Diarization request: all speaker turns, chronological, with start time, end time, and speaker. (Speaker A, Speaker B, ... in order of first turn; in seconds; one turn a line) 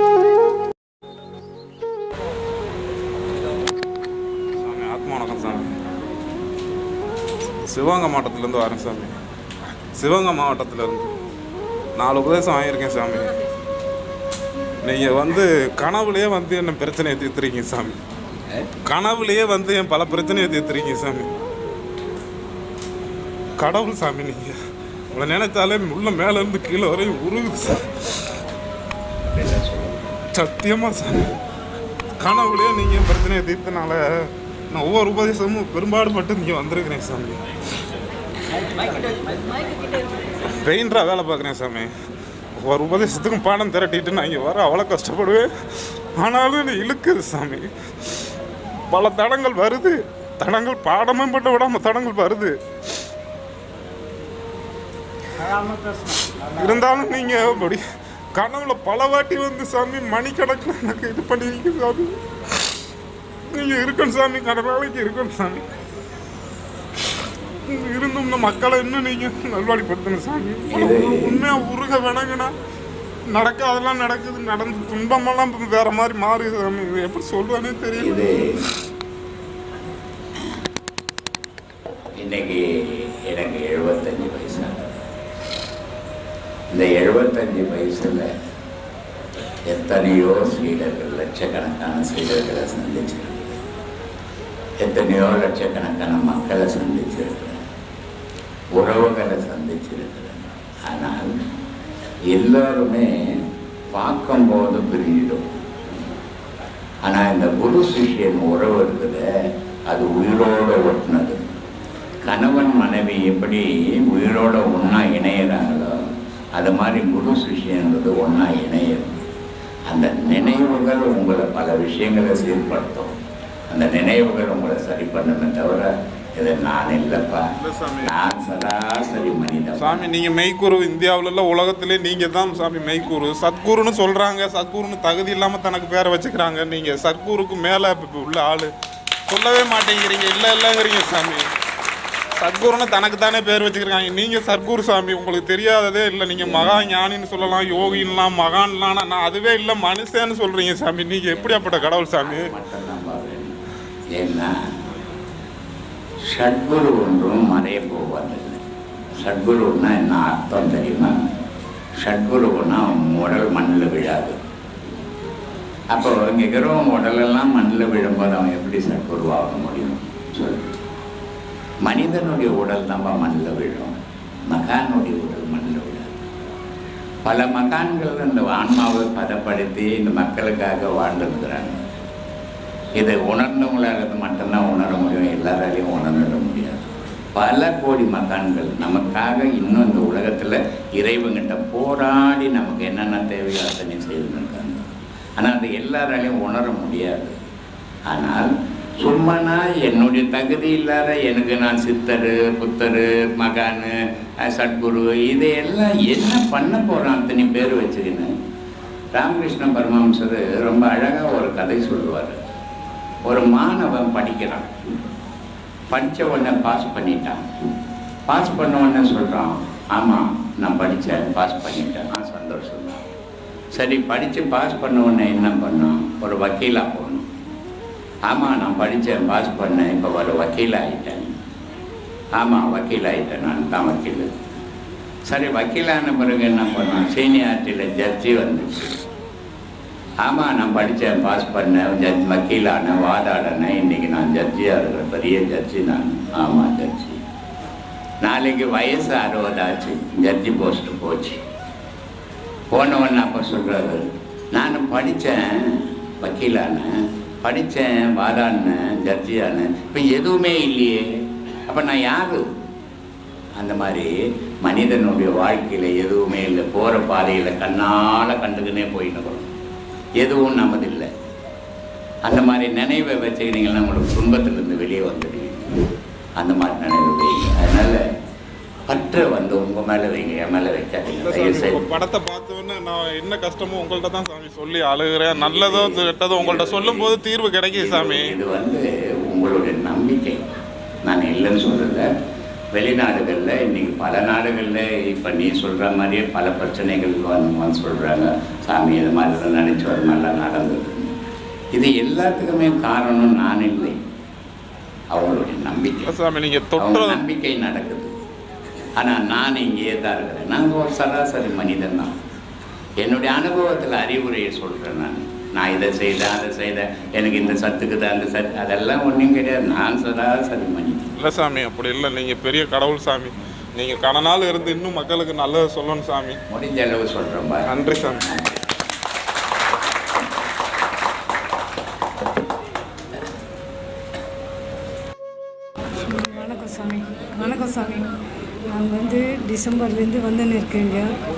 Speaker A: 4.6-5.7
Speaker A: 7.7-9.1
Speaker A: 9.9-11.1
Speaker A: 11.9-13.3
Speaker A: 14.8-18.0
Speaker A: 18.8-21.3
Speaker A: 23.6-24.6
Speaker A: 25.1-27.8
Speaker B: 29.2-30.0
Speaker A: 30.3-31.4
Speaker A: 32.2-37.4
Speaker A: 40.6-41.9
Speaker A: 42.6-45.5
Speaker A: 46.2-47.7
Speaker A: 48.9-52.5
Speaker A: 56.3-57.8
Speaker A: 58.4-62.1
Speaker A: 63.5-65.7
Speaker A: 67.7-72.5
Speaker B: 70.7-71.5
Speaker A: 73.3-78.2
Speaker B: 78.0-78.5
Speaker B: 82.2-85.0
Speaker B: 86.7-88.3
Speaker B: 89.7-93.6
Speaker B: 94.8-97.6
Speaker B: 98.8-101.3
Speaker B: 102.3-103.1
Speaker B: 103.9-105.5
Speaker B: 107.0-109.2
Speaker B: 109.9-111.4
Speaker B: 112.2-116.0
Speaker B: 116.5-119.2
Speaker B: 119.9-123.1
Speaker B: 123.7-127.4
Speaker A: 127.6-128.1
Speaker B: 128.0-130.1
Speaker A: 129.8-138.7
Speaker A: 139.3-141.5
Speaker A: 142.4-152.5
Speaker B: 146.4-146.8
Speaker B: 147.5-148.1
Speaker B: 151.3-153.6
Speaker B: 154.2-154.5
Speaker B: 156.3-158.6
Speaker B: 159.2-161.2
Speaker B: 162.0-164.3
Speaker B: 165.9-170.8
Speaker B: 171.8-173.9
Speaker B: 174.5-176.2
Speaker B: 177.2-181.8
Speaker B: 183.0-197.3
Speaker B: 198.1-198.5
Speaker B: 199.0-208.3
Speaker B: 209.2-212.4
Speaker B: 213.2-215.0
Speaker B: 215.9-217.4
Speaker B: 218.3-223.0
Speaker B: 223.7-227.2
Speaker B: 228.3-231.3
Speaker B: 232.4-234.3
Speaker B: 235.3-239.0
Speaker B: 240.2-247.2
Speaker B: 248.2-251.4
Speaker B: 252.7-256.9
Speaker B: 257.4-261.1
Speaker B: 261.7-262.4
Speaker B: 263.6-264.1
Speaker B: 264.6-269.5
Speaker B: 270.2-271.1
Speaker B: 272.2-275.7
Speaker B: 276.4-278.0
Speaker B: 278.9-281.8
Speaker A: 281.2-288.3
Speaker B: 285.3-287.1
Speaker B: 287.7-290.4
Speaker B: 291.0-292.1
Speaker B: 292.8-301.1
Speaker B: 301.7-304.0
Speaker B: 305.1-306.1
Speaker A: 306.1-307.2
Speaker B: 306.8-308.1
Speaker B: 309.0-312.1
Speaker B: 313.0-321.1
Speaker A: 321.2-326.4
Speaker B: 326.5-327.7
Speaker A: 327.6-328.2
Speaker B: 328.2-328.6
Speaker C: 336.0-338.1
Speaker C: 338.7-341.1